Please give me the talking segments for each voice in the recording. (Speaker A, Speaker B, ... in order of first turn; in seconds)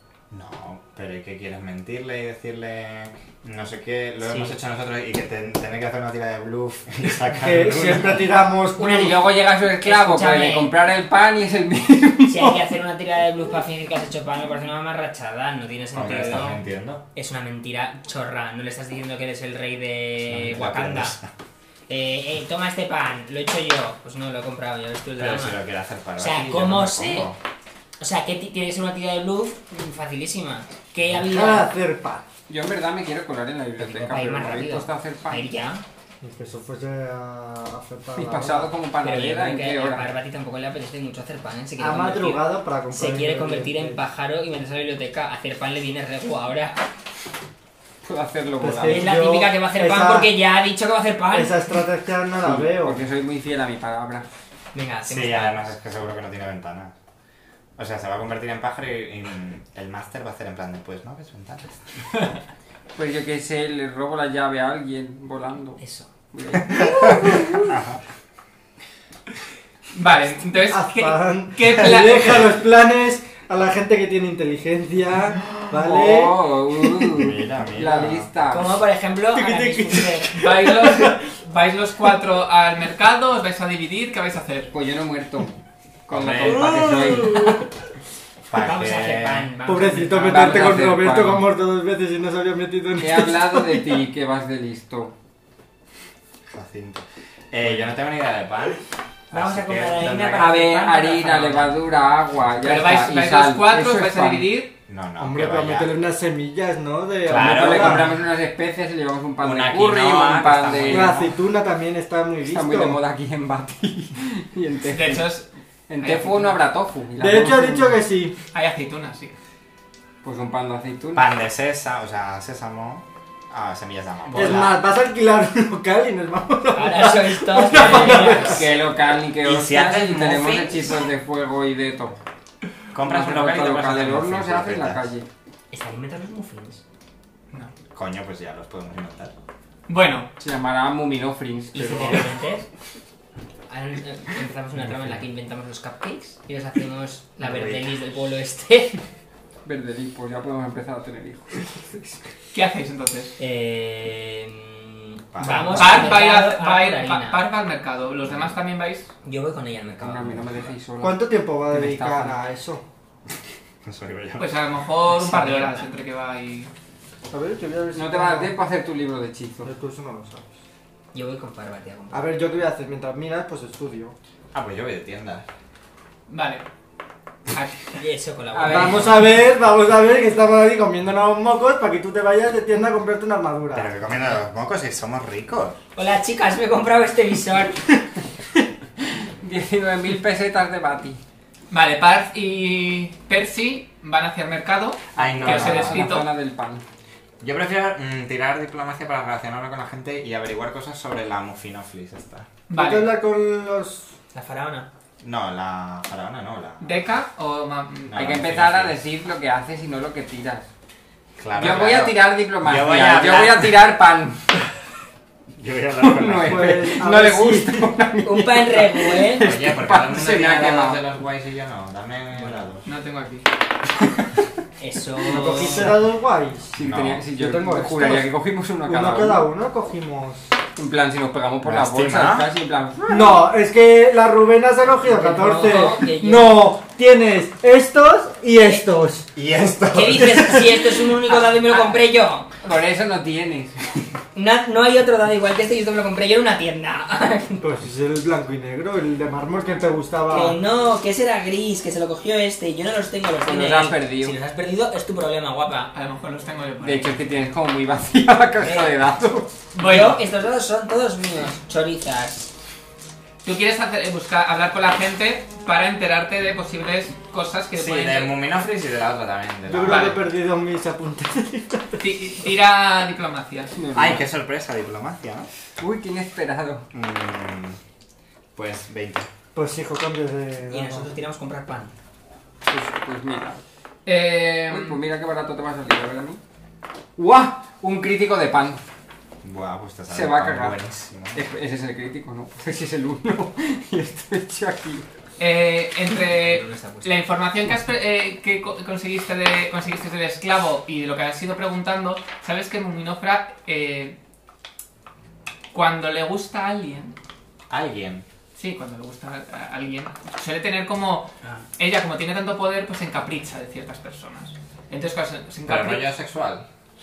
Speaker A: 0.3-8.3, 15.9-17.0, 20.2-21.3, 25.2-27.4, 55.0-56.9, 57.8-62.1, 67.7-68.0, 77.2-78.2, 86.1-86.7, 88.5-89.5, 96.5-100.5, 104.9-105.9, 107.2-108.1, 109.4-111.2, 121.1-124.8, 129.4-130.9, 132.9-135.1, 137.9-139.3, 147.4-147.9, 155.3-156.1, 163.8-164.5, 174.5-175.4, 183.7-185.8, 195.2-196.1, 197.4-202.5, 205.2-207.0, 208.1-209.0, 211.4-213.7, 215.6-216.9, 219.4-222.8, 226.8-227.3, 231.6-232.5, 239.3-240.6, 267.7-270.2, 273.9-275.5, 276.9-277.8, 278.6-279.3, 289.4-291.4, 307.7-308.2, 315.6-316.6
Speaker B: 4.2-4.5, 9.8-10.7, 12.2-21.1, 21.9-25.6, 26.1-27.3, 28.0-31.7, 33.8-35.8, 39.0-46.8, 48.8-51.5, 54.7-55.7, 65.8-66.1, 78.4-80.3, 86.4-87.7, 88.5-90.9, 99.3-101.8, 126.7-128.7, 135.7-136.8, 141.7-142.7, 143.7-149.0, 153.4-157.4, 159.2-160.4, 165.1-165.9, 171.1-172.3, 178.0-179.2, 185.9-188.0, 204.3-204.9, 218.2-219.5, 224.8-225.9, 235.0-236.7, 239.9-242.5, 244.3-247.7, 250.3-255.9, 258.6-258.9, 259.8-262.5, 280.7-281.9, 296.2-297.2
Speaker C: 7.4-9.3, 31.2-32.2, 36.2-38.7, 41.8-44.0, 48.6-50.3, 51.3-53.0, 70.7-77.3, 77.8-78.2, 79.3-81.2, 86.7-87.6, 89.6-94.0, 105.2-108.2, 110.8-113.0, 117.2-118.3, 124.3-128.7, 155.4-156.2, 161.0-162.8, 167.3-168.6, 169.6-170.5, 172.1-174.2, 178.7-183.9, 202.7-204.1, 216.4-217.9, 225.3-226.8, 227.3-230.5, 233.1-239.3, 240.1-241.1, 247.6-250.6, 269.7-272.0, 279.5-281.2
Speaker D: 8.7-12.6, 32.5-35.5, 38.1-40.1, 48.0-49.1, 52.4-54.2, 62.9-67.6, 75.7-78.7, 84.7-85.5, 86.1-87.4, 90.2-91.5, 93.0-95.1, 100.4-104.5, 107.3-111.4, 112.4-115.3, 115.9-118.0, 120.2-121.3, 127.8-132.2, 133.0-135.3, 140.4-142.3, 149.6-152.3, 160.0-162.3, 167.9-169.7, 178.5-179.2, 189.0-191.2, 195.2-196.8, 208.1-210.7, 211.5-214.4, 216.0-221.0, 225.3-225.9, 226.7-229.5, 230.8-233.5, 241.5-241.9, 242.6-244.2, 253.4-254.3, 256.8-259.5, 273.7-274.3, 275.8-276.9, 282.7-283.6, 284.7-286.4, 287.1-288.8, 290.1-290.8, 291.3-295.1
Speaker E: 69.9-72.5, 80.3-84.7, 102.6-104.7, 114.9-115.5, 116.0-116.6, 118.5-119.3, 139.9-140.3, 152.5-153.4, 155.8-159.1, 164.4-166.7, 176.3-176.6, 177.5-177.9, 191.7-196.3, 202.7-203.1, 206.8-208.4, 222.8-223.5, 255.9-257.3, 259.7-260.2, 263.4-268.4, 269.8-270.2, 272.0-273.7, 284.1-285.0, 295.4-304.2, 305.7-307.1, 308.6-316.1